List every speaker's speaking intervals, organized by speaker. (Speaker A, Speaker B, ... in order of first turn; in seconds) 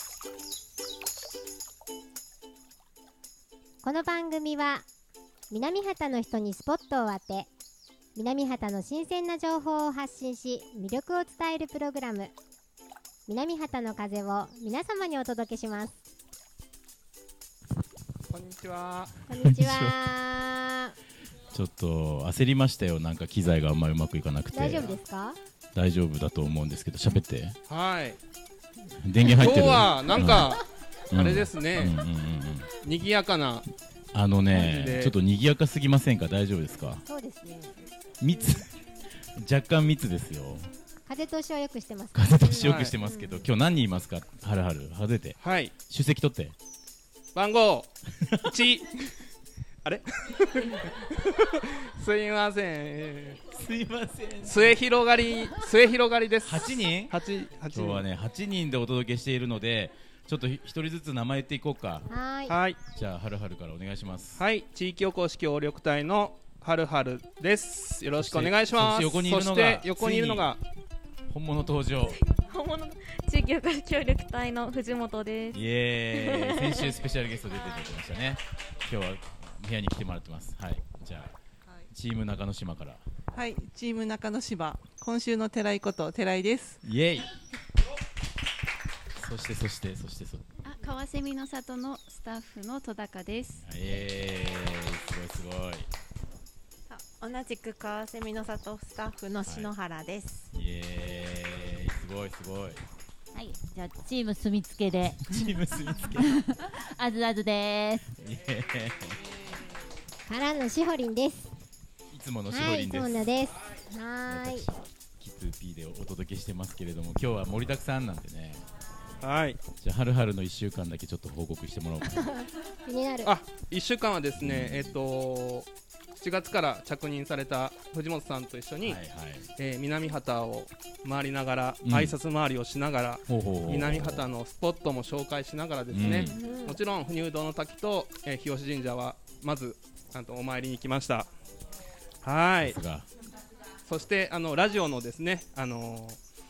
Speaker A: 3.8-4.8, 5.5-7.5, 8.1-12.3, 13.3-16.0, 19.3-20.9, 24.5-25.4, 37.0-37.8, 38.3-38.6, 41.0-43.5, 62.1-62.5, 110.3-111.5, 112.5-114.7, 122.1-123.3, 136.1-136.8
Speaker B: 18.3-19.1, 27.7-28.2, 29.2-30.6, 31.1-32.0, 32.8-33.6, 34.5-35.1, 42.6-42.9, 45.4-45.7, 47.3-48.9, 49.8-53.4, 54.4-58.0, 62.5-62.8, 64.4-70.6, 119.2-119.6, 123.2-125.7, 126.2-129.0, 129.6-141.3, 142.2-142.8, 143.8-146.2
Speaker C: 19.4-20.0, 21.5-24.9, 25.7-27.6, 29.0-30.5, 31.1-32.7, 34.1-37.0, 38.2-38.7, 39.3-40.7, 42.1-46.5, 48.2-48.5, 53.5-54.8, 56.4-57.2, 57.7-62.1, 62.9-64.4, 68.1-70.5, 71.3-72.2, 75.5-81.3, 81.9-83.0, 86.8-87.3, 89.2-90.5, 93.6-95.9, 99.4-99.7, 100.5-102.8, 105.3-106.4, 108.2-109.2, 112.1-113.3, 114.3-118.6, 119.8-122.3, 124.4-124.9, 128.8-129.5, 131.8-132.1, 133.3-134.3, 135.9-136.4, 142.6-143.1
Speaker D: 72.1-75.6, 76.1-77.0
Speaker E: 83.3-86.8
Speaker F: 90.6-93.6, 98.3-99.1
Speaker G: 96.9-100.4
Speaker H: 103.3-105.5, 106.2-108.0